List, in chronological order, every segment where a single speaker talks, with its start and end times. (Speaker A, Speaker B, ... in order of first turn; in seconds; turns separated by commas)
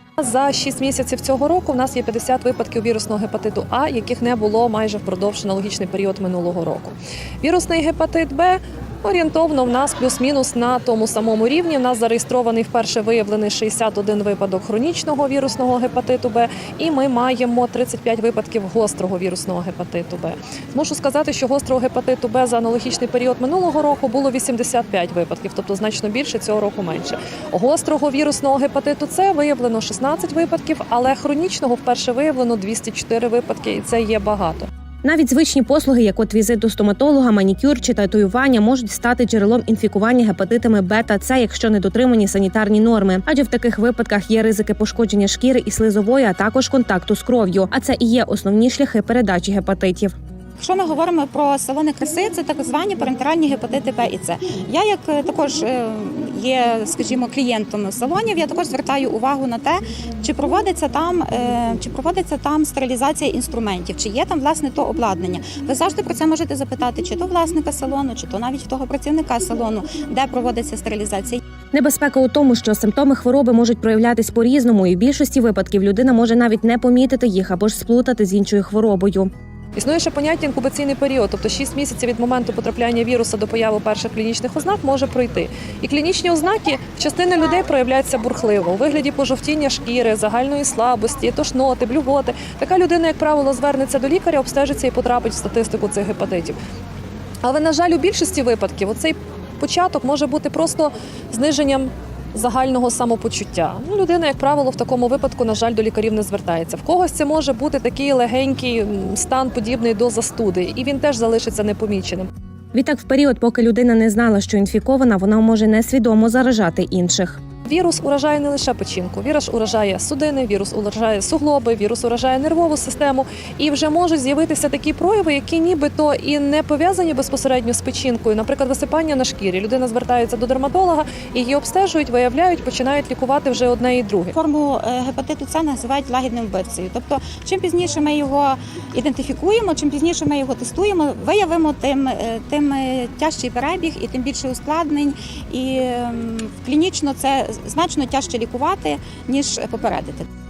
Speaker A: 0.2-34.7, Speaker B: 35.0-50.1, Speaker C: 50.6-71.4, Speaker B: 71.7-79.3, Speaker A: 79.8-96.6, Speaker A: 97.4-112.3, Speaker B: 112.7-117.4, Speaker A: 117.7-134.3, Speaker C: 134.3-150.3